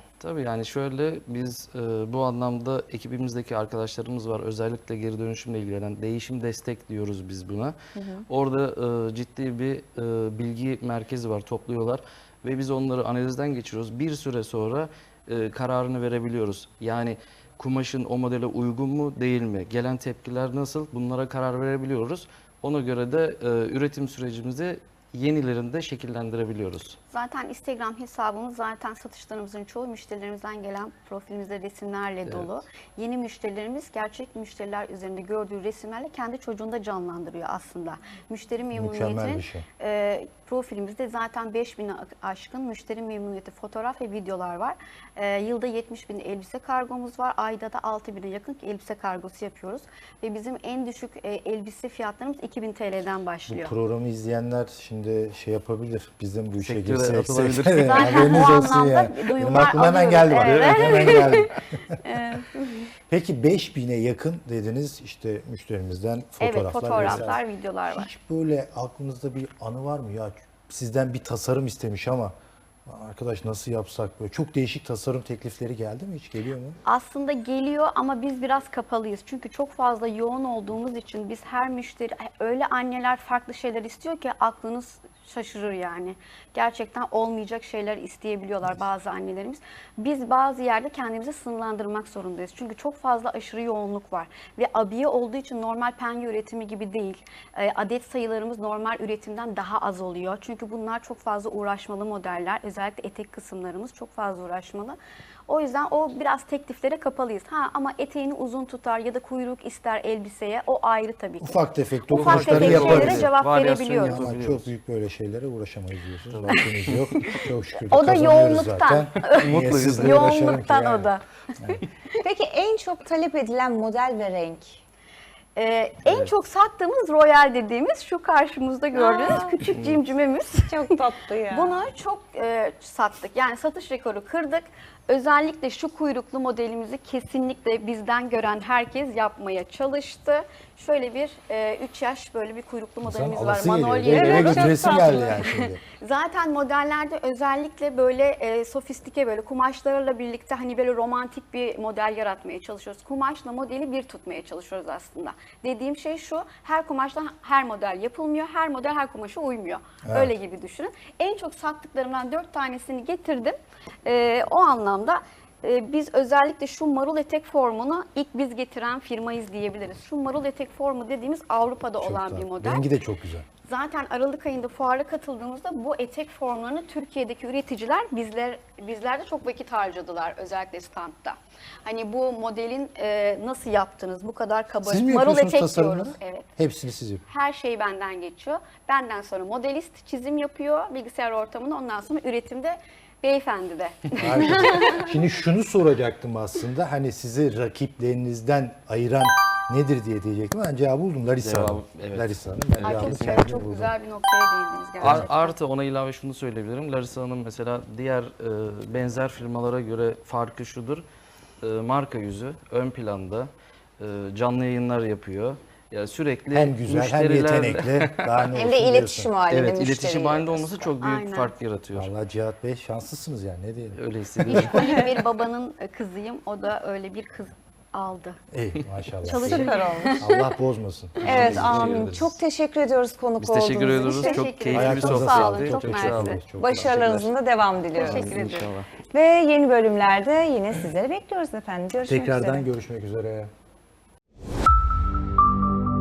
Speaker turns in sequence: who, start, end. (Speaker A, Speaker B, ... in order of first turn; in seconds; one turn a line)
Speaker A: 0.2-7.8
Speaker B: 8.0-8.2
Speaker A: 8.3-27.0
Speaker C: 27.1-53.7
Speaker A: 32.2-32.5
Speaker D: 38.7-39.6
Speaker D: 53.5-62.0
Speaker A: 56.6-58.4
Speaker C: 57.9-61.5
Speaker A: 60.4-61.4
Speaker C: 62.0-62.9
Speaker D: 63.1-67.4
Speaker C: 66.4-68.1
Speaker A: 66.9-67.3
Speaker D: 67.9-72.3
Speaker D: 72.9-76.8
Speaker C: 76.8-105.0
Speaker C: 105.5-114.2
Speaker D: 111.4-113.3
Speaker A: 112.1-114.7
Speaker D: 114.0-121.8
Speaker A: 116.3-117.0
Speaker C: 117.8-121.2
Speaker A: 119.2-120.4
Speaker B: 122.2-124.8
Speaker C: 125.6-131.0
Speaker A: 126.1-126.3
Speaker B: 128.9-129.6
Speaker A: 129.7-130.0
Speaker B: 130.7-131.8
Speaker C: 131.5-172.9
Speaker D: 143.0-145.8
Speaker B: 144.1-145.6
Speaker D: 160.1-160.3
Speaker D: 172.0-173.5
Speaker C: 173.7-186.5
Speaker D: 184.8-187.2
Speaker C: 187.3-195.1
Speaker D: 194.2-203.9
Speaker A: 201.4-203.3
Speaker C: 202.8-205.6
Speaker A: 205.0-211.1
Speaker D: 205.0-205.3
Speaker A: 211.6-218.4
Speaker D: 216.5-219.3
Speaker B: 218.5-220.9
Speaker A: 219.5-222.1
Speaker C: 221.0-221.6
Speaker D: 221.9-224.9
Speaker A: 223.9-225.0
Speaker C: 224.5-228.4
Speaker D: 228.5-232.3
Speaker C: 229.2-230.6
Speaker B: 229.4-230.2
Speaker A: 231.2-232.4
Speaker B: 231.2-234.5
Speaker A: 233.4-237.3
Speaker C: 234.0-236.4
Speaker D: 234.7-237.0
Speaker B: 236.6-238.3
Speaker C: 237.9-238.7
Speaker A: 238.0-238.9
Speaker B: 239.1-242.7
Speaker D: 242.1-243.5